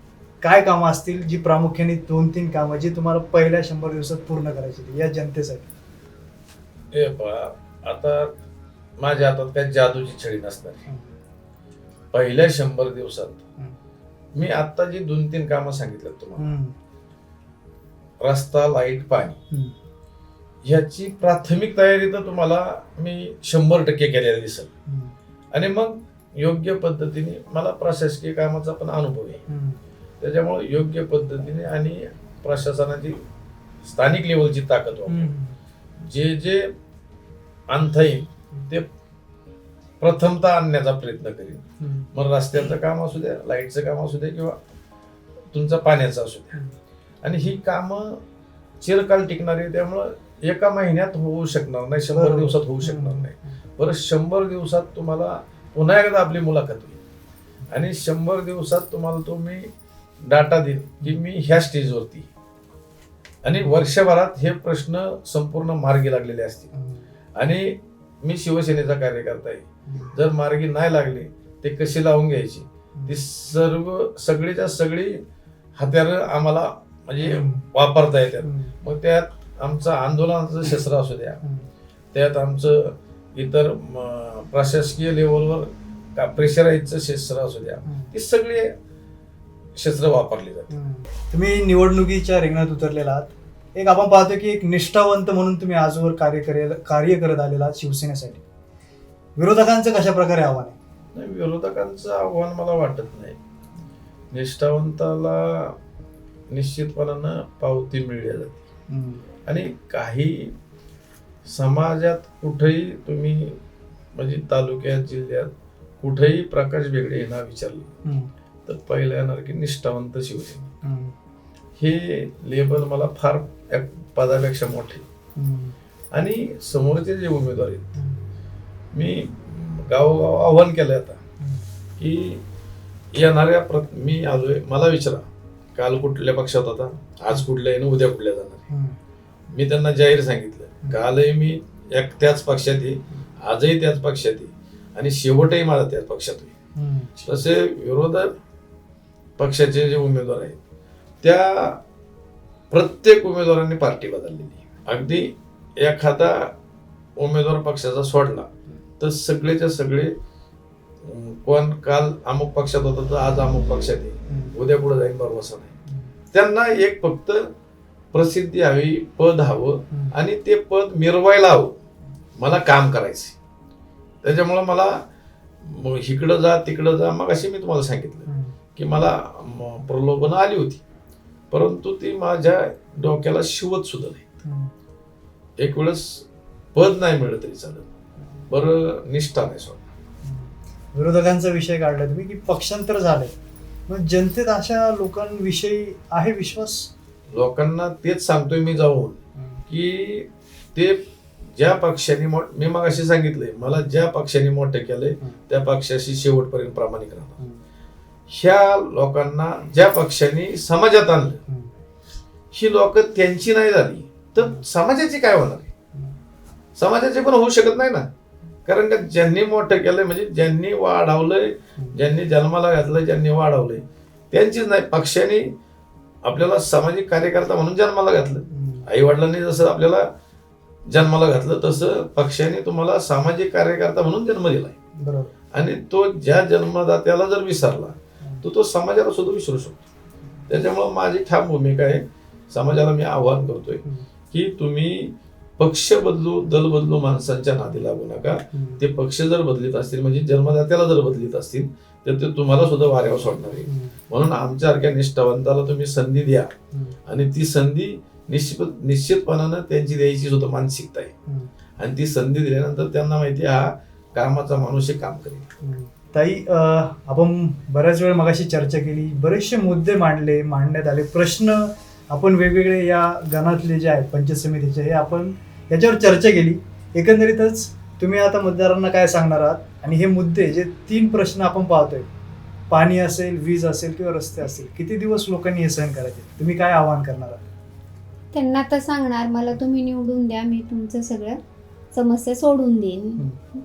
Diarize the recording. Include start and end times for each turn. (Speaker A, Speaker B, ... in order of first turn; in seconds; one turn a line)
Speaker A: 0.4-5.7
Speaker B: 6.9-8.3
Speaker B: 9.0-10.8
Speaker B: 12.1-13.4
Speaker B: 14.3-16.5
Speaker A: 16.4-16.7
Speaker B: 18.2-19.4
Speaker B: 20.6-24.7
Speaker A: 24.9-25.1
Speaker B: 25.5-29.4
Speaker A: 29.5-29.8
Speaker B: 30.2-33.2
Speaker B: 33.8-35.3
Speaker A: 35.1-35.6
Speaker B: 36.0-36.7
Speaker B: 37.7-38.9
Speaker B: 40.0-44.6
Speaker A: 41.8-42.1
Speaker B: 45.5-46.6
Speaker B: 47.2-48.2
Speaker B: 48.8-57.0
Speaker A: 52.1-53.5
Speaker B: 57.7-59.7
Speaker B: 60.2-62.3
Speaker B: 63.4-66.7
Speaker A: 66.7-67.0
Speaker B: 67.4-75.2
Speaker A: 69.9-70.1
Speaker B: 75.8-81.4
Speaker A: 77.2-77.6
Speaker A: 78.4-78.7
Speaker B: 82.1-88.7
Speaker A: 87.8-88.1
Speaker B: 89.8-90.7
Speaker A: 90.7-98.4
Speaker A: 99.4-100.8
Speaker B: 101.1-103.4
Speaker B: 104.3-105.8
Speaker B: 106.5-108.6
Speaker A: 108.9-109.2
Speaker B: 109.5-110.5
Speaker B: 111.5-113.6
Speaker B: 114.1-118.0
Speaker B: 118.7-120.7
Speaker A: 120.8-121.1
Speaker B: 121.8-125.0
Speaker A: 125.3-125.8
Speaker B: 126.1-128.0
Speaker B: 128.9-131.2
Speaker A: 131.4-131.7
Speaker B: 132.0-132.4
Speaker B: 133.1-138.7
Speaker A: 138.7-139.0
Speaker B: 139.5-146.5
Speaker A: 146.8-147.2
Speaker B: 147.2-148.3
Speaker B: 149.4-150.6
Speaker B: 151.2-151.8
Speaker B: 152.7-156.5
Speaker B: 157.2-158.5
Speaker B: 159.0-160.1
Speaker B: 161.0-165.7
Speaker A: 164.3-164.5
Speaker B: 166.3-167.5
Speaker B: 168.1-171.8
Speaker B: 172.4-173.3
Speaker B: 174.2-175.0
Speaker B: 175.6-180.8
Speaker A: 178.3-178.5
Speaker B: 181.5-184.2
Speaker A: 184.4-184.7
Speaker B: 185.6-187.9
Speaker B: 188.5-189.9
Speaker A: 190.2-193.3
Speaker A: 193.9-196.9
Speaker B: 197.3-207.4
Speaker A: 199.4-199.6
Speaker B: 208.3-211.4
Speaker B: 212.5-215.7
Speaker B: 216.8-218.1
Speaker B: 218.7-225.5
Speaker B: 226.2-230.1
Speaker A: 228.5-228.9
Speaker B: 230.9-234.8
Speaker A: 235.0-235.3
Speaker B: 235.5-239.8
Speaker B: 240.5-256.5
Speaker A: 248.5-248.8
Speaker A: 253.7-253.9
Speaker B: 257.1-261.1
Speaker B: 261.8-265.5
Speaker A: 265.6-282.1
Speaker A: 282.7-287.4
Speaker C: 288.3-291.4
Speaker C: 291.9-293.3